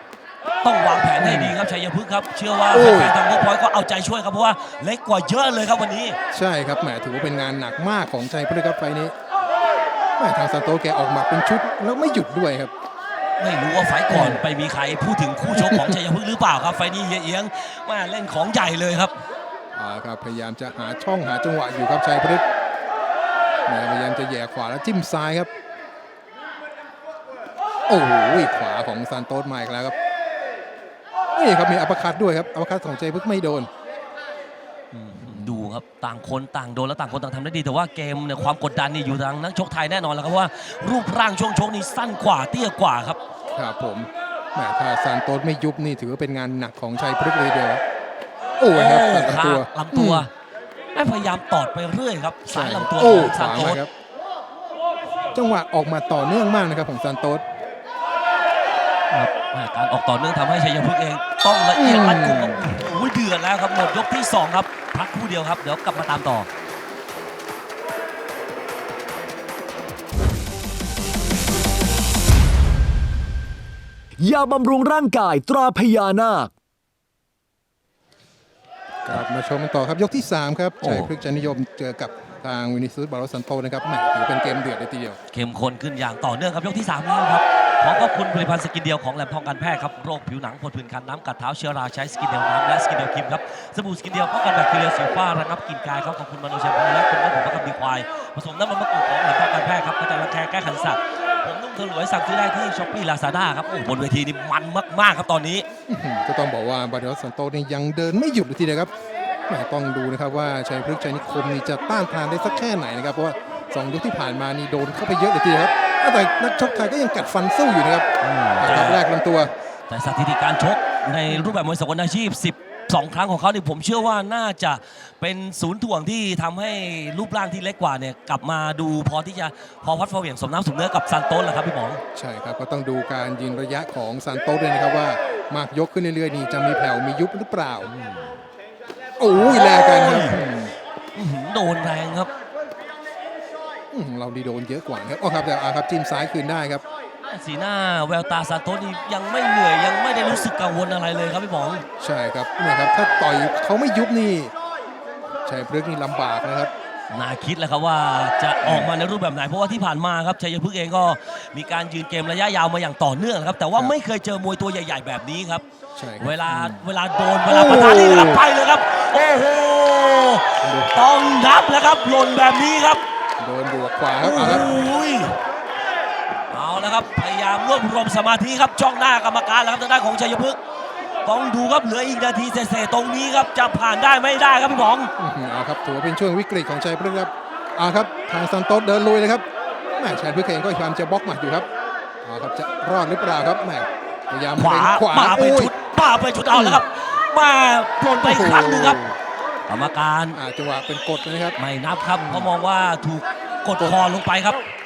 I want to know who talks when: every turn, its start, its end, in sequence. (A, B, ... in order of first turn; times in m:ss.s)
0:00.6-0:06.2 A
0:01.2-0:01.6 B
0:02.7-0:03.2 B
0:06.3-0:09.1 B
0:10.2-0:12.7 B
0:13.4-0:19.1 A
0:14.1-0:14.4 B
0:15.5-0:16.0 B
0:19.7-0:22.4 B
0:23.6-0:25.5 B
0:27.9-0:29.9 B
0:31.3-0:33.7 B
0:34.9-0:43.2 A
0:35.3-0:35.6 B
0:43.5-0:47.8 B
0:48.6-0:50.3 B
0:48.7-0:50.3 A
0:50.9-0:53.8 A
0:52.5-0:53.9 B
0:55.3-0:57.4 B
0:59.1-1:06.5 A
1:01.7-1:02.7 B
1:14.2-1:16.5 C
1:19.0-1:25.2 B
1:20.8-1:21.1 A
1:25.3-1:45.6 A
1:45.9-1:48.9 B
1:49.5-1:58.1 B
1:58.2-1:59.0 A
1:58.6-1:59.5 B
1:59.9-2:12.0 A
2:01.2-2:01.5 B
2:12.1-2:17.9 B
2:17.8-2:18.3 A
2:19.2-2:20.7 B
2:19.4-2:20.4 A
2:21.1-2:22.3 A
2:23.9-2:26.8 B
2:27.3-2:31.8 A
2:32.0-2:34.5 B
2:35.4-2:36.7 B
2:37.1-2:45.6 A
2:38.6-2:38.9 B
2:45.9-2:46.8 B
2:46.2-2:53.0 A
2:47.5-2:48.4 B
2:50.6-2:51.0 B
2:53.4-2:54.7 B
2:54.2-2:55.4 A
2:56.5-3:00.6 A
3:01.2-3:05.1 A
3:05.2-3:09.4 B
3:10.0-3:11.7 B
3:12.2-3:15.7 B
3:14.5-3:19.0 A
3:16.5-3:16.8 B
3:18.0-3:19.2 B
3:19.7-3:20.4 A
3:20.3-3:21.6 B
3:21.6-3:24.6 A
3:22.2-3:22.5 B